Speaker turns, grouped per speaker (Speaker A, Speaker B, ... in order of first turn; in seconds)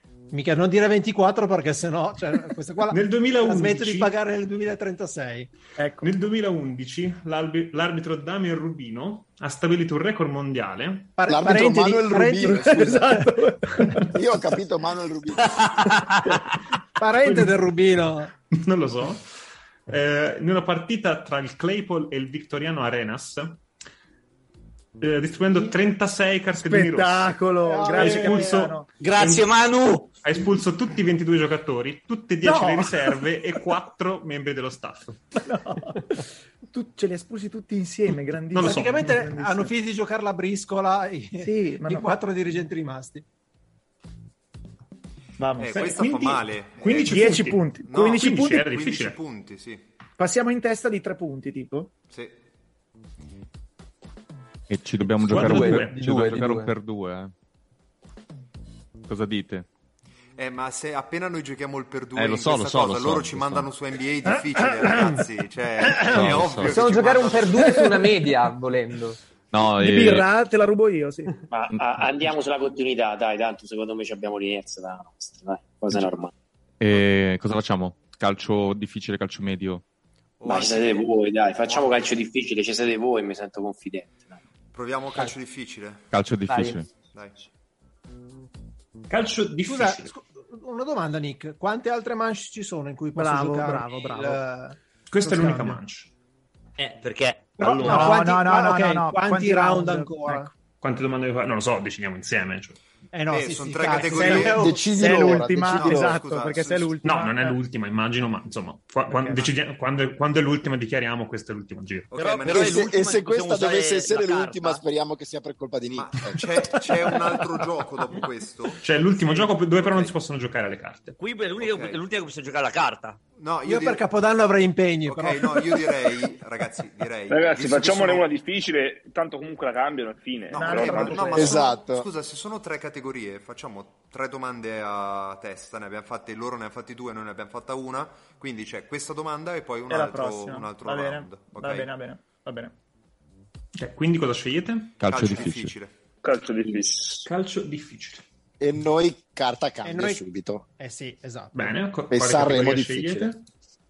Speaker A: 0.3-5.5, 11.2-13.3, 17.0-18.3, 27.6-28.7, 38.6-43.2, 89.6-95.8, 97.6-100.5, 103.1-105.4, 123.6-125.9, 149.8-150.2, 150.8-151.7
Speaker B: 2.9-4.1, 6.0-11.2, 18.5-19.2, 19.9-23.6, 25.0-27.4, 27.9-29.5, 30.1-35.2, 38.5-39.0, 45.7-49.2, 55.3-56.0, 89.1-90.1, 95.1-96.1, 100.8-102.8, 107.0-112.1, 118.8-121.1, 143.7-145.0, 147.2-148.2, 151.5-153.4
Speaker C: 5.8-6.1, 12.5-14.1, 26.5-28.9, 32.4-33.2, 35.4-39.7, 41.4-42.1, 45.4-46.0, 46.8-48.7, 50.2-51.9, 67.7-68.0, 69.8-71.5, 93.2-94.4, 97.8-100.5, 104.8-107.6, 109.1-109.5, 130.6-131.7, 139.9-142.7
Speaker D: 11.3-13.2, 14.1-15.9, 104.2-106.2, 112.5-116.5, 131.3-132.1, 148.6-150.7, 152.1-153.3
Speaker E: 29.0-30.1, 96.8-98.2, 112.1-114.8, 121.2-123.2
Speaker F: 45.6-49.8, 52.1-52.4, 60.4-67.8, 80.4-82.1, 84.7-86.1, 103.3-104.8, 105.6-106.9, 112.1-112.9, 115.9-120.1, 121.6-122.0, 123.4-124.0, 125.1-128.3, 130.5-141.9, 145.0-145.9
Speaker G: 54.7-57.3, 59.0-59.6, 62.1-63.7, 66.0-66.8, 69.5-70.3, 76.8-79.8, 86.1-86.9, 145.0-145.7
Speaker H: 55.3-56.7, 66.7-69.2, 86.5-86.8
Speaker I: 71.5-76.3, 80.4-84.4
Speaker J: 127.3-131.5, 146.2-147.2